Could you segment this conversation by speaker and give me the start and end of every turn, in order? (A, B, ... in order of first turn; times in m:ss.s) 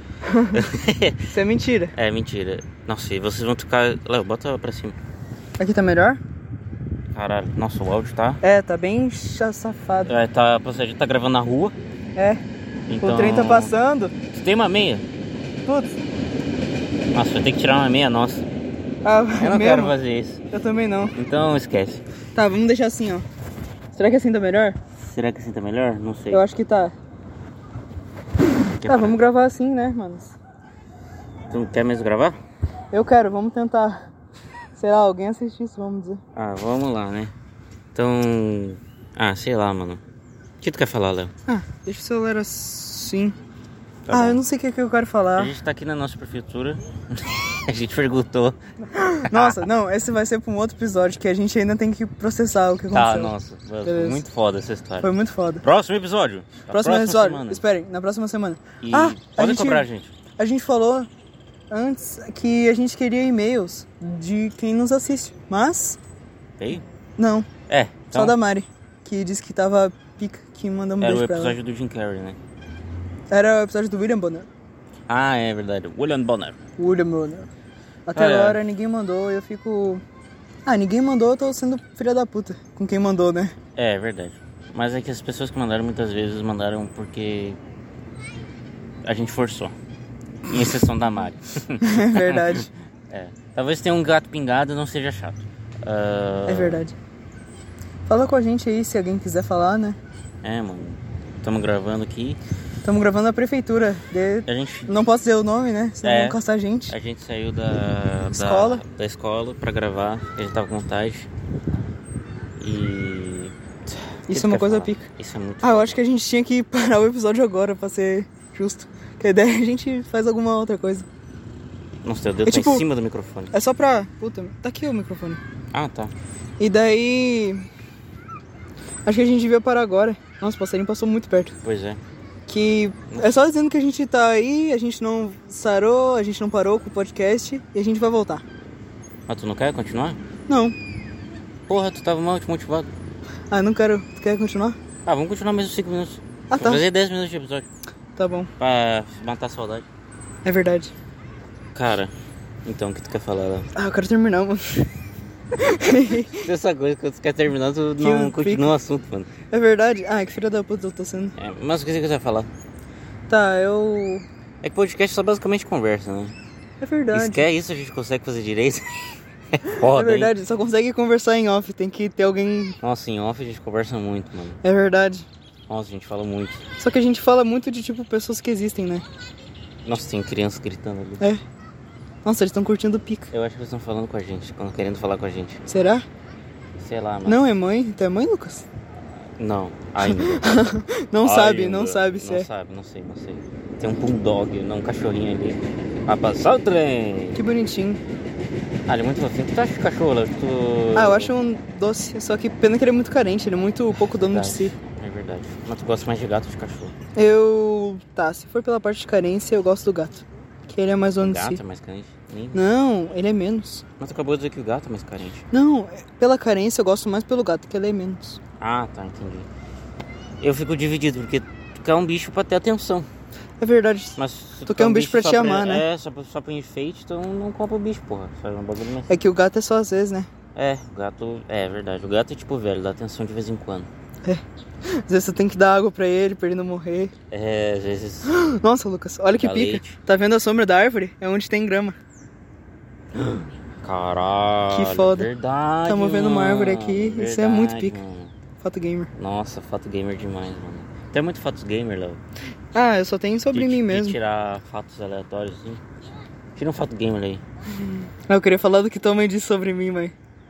0:00.3-0:00.6 A
0:00.5-0:01.2 B
0:01.3-0:01.9 A
0:01.9-0:05.0 B
0:05.6-0:06.2 A
0:07.1-0:08.4 B
0:08.4-0:10.2 A
0:10.0-0:11.8 B
0:12.9-0:13.8 B
0:13.0-0:14.1 A
0:14.3-0:15.0 B
0:15.7-0:16.0 A
0:17.1-0:18.5 B
0:19.0-0:20.0 A
0:19.4-0:20.4 B
0:20.5-0:21.2 A
0:21.2-0:22.0 B
0:22.4-0:23.3 A
0:23.9-0:24.8 A
0:25.0-0:26.4 B
0:26.3-0:27.0 A
0:28.8-0:29.2 B
0:28.9-0:30.4 A
0:31.5-0:32.4 B
0:32.9-0:34.1 A
0:34.8-0:36.2 A
0:36.3-0:37.3 B
0:38.0-0:40.0 B
0:40.6-0:41.3 B
0:41.5-0:43.4 A
0:44.1-0:44.4 B
0:44.1-0:45.5 A
0:45.4-0:49.7 B
0:48.9-0:54.2 A
0:52.9-0:55.1 B
0:55.0-0:55.6 A
0:55.6-0:57.6 B
0:56.7-0:59.9 A
0:58.8-1:00.1 B
1:00.4-1:01.1 A
1:01.7-1:06.0 A
1:06.6-1:06.8 B
1:07.2-1:07.5 A
1:07.7-1:08.4 B
1:08.1-1:11.6 A
1:11.0-1:12.4 B
1:13.3-1:14.5 A
1:15.1-1:16.6 B
1:16.8-1:17.5 A
1:18.1-1:20.0 A
1:18.1-1:18.6 B
1:20.6-1:23.6 A
1:23.8-1:27.6 B
1:29.0-1:29.7 B
1:30.5-1:36.8 B
1:31.8-1:32.7 A
1:36.5-1:37.0 A
1:38.1-1:40.0 A
1:40.4-1:42.4 B
1:42.8-1:46.9 A
1:44.5-1:44.9 B
1:46.0-1:51.3 B
1:48.3-1:48.8 A
1:52.6-1:56.0 B
1:54.3-1:55.1 A
1:55.6-2:01.1 A
2:02.0-2:03.5 B
2:02.5-2:02.9 A
2:03.5-2:05.4 A
2:05.7-2:06.1 B
2:06.6-2:07.6 A
2:09.0-2:11.6 A
2:11.6-2:12.0 B
2:12.5-2:18.4 A
2:19.3-2:20.2 B
2:20.5-2:20.8 A
2:21.7-2:22.9 B
2:23.5-2:24.8 A
2:25.0-2:27.7 B
2:26.5-2:26.8 A
2:28.2-2:28.5 A
2:28.6-2:29.9 B
2:30.4-2:30.9 A
2:31.7-2:32.1 B
2:32.6-2:33.7 B
2:33.8-2:34.9 A
2:35.6-2:36.5 A
2:36.4-2:39.3 B
2:38.0-2:38.7 A
2:39.5-2:41.4 A
2:41.4-2:42.5 B
2:43.3-2:44.3 A
2:44.6-2:46.4 B
2:46.8-2:47.4 A
2:47.1-2:50.3 B
2:49.8-2:52.8 A
2:52.8-2:54.6 B
2:54.6-2:55.3 A
2:55.7-2:56.6 B
2:56.8-2:59.0 A
2:59.8-3:01.3 B
3:02.2-3:03.3 A
3:03.3-3:05.6 B
3:05.7-3:06.0 A
3:06.8-3:07.4 B
3:07.3-3:08.7 A
3:09.4-3:10.4 B
3:10.0-3:12.5 A
3:11.2-3:17.4 B
3:17.4-3:18.0 A
3:18.9-3:21.3 B
3:21.0-3:24.7 A
3:23.9-3:26.9 B
3:27.2-3:31.6 A
3:31.2-3:32.6 B
3:32.5-3:33.8 A
3:34.0-3:35.4 B
3:35.5-3:38.4 A
3:38.6-3:39.5 B
3:40.4-3:43.1 B
3:43.6-3:45.8 A
3:44.2-3:49.2 B
3:49.1-3:50.3 A
3:50.6-3:53.9 B
3:54.9-3:57.1 A
3:57.3-3:58.3 B
3:58.3-4:02.0 A
3:59.4-4:00.0 B
4:03.1-4:08.3 B
4:04.7-4:05.3 A
4:05.8-4:08.0 A
4:08.6-4:09.1 A
4:09.2-4:12.2 B
4:12.7-4:14.2 A
4:13.5-4:15.8 B
4:16.6-4:17.4 B
4:18.3-4:20.1 A